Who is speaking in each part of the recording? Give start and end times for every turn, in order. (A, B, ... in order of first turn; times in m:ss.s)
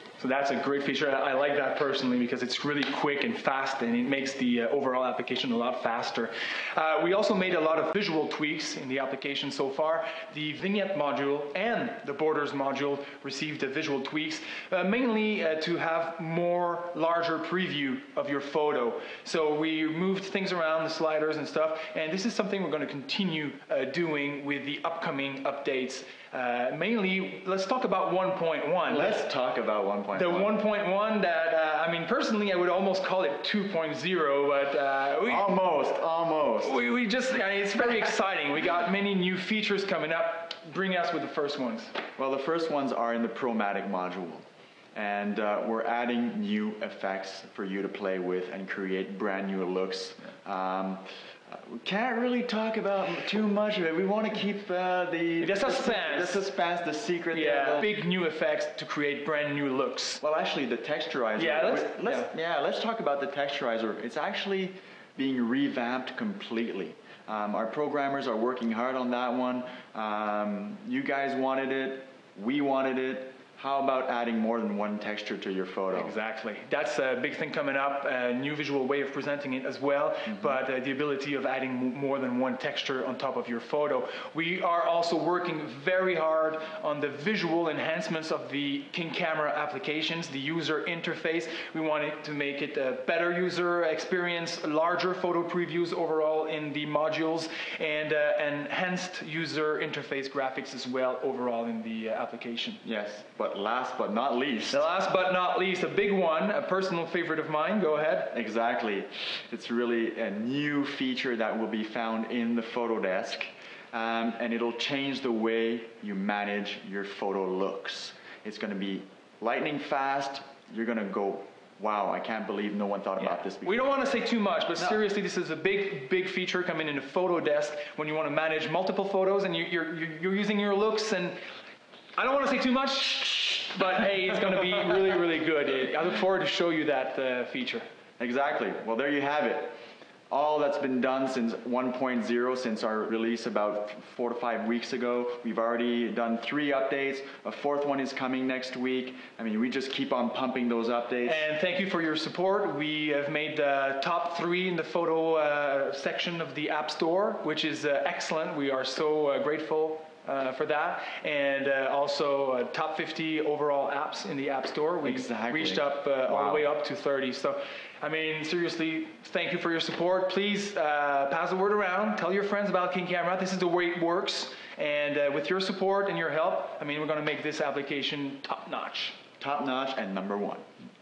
0:00.2-0:29.2 A
0:28.8-0:30.6 B
0:30.1-0:35.5 A
0:35.2-0:36.8 B
0:36.6-0:42.0 A
0:42.2-0:57.9 B
0:55.4-0:56.4 A
0:57.3-1:00.2 A
1:00.2-1:16.1 B
1:01.4-1:02.3 A
1:15.9-1:42.8 A
1:42.8-1:44.8 B
1:44.7-1:48.3 A
1:48.3-2:03.9 B
2:03.2-2:11.4 A
2:12.2-2:17.8 A
2:18.2-2:19.8 B
2:20.3-2:31.4 B
2:31.2-2:59.2 A
2:45.0-2:46.7 B
2:59.4-3:00.6 B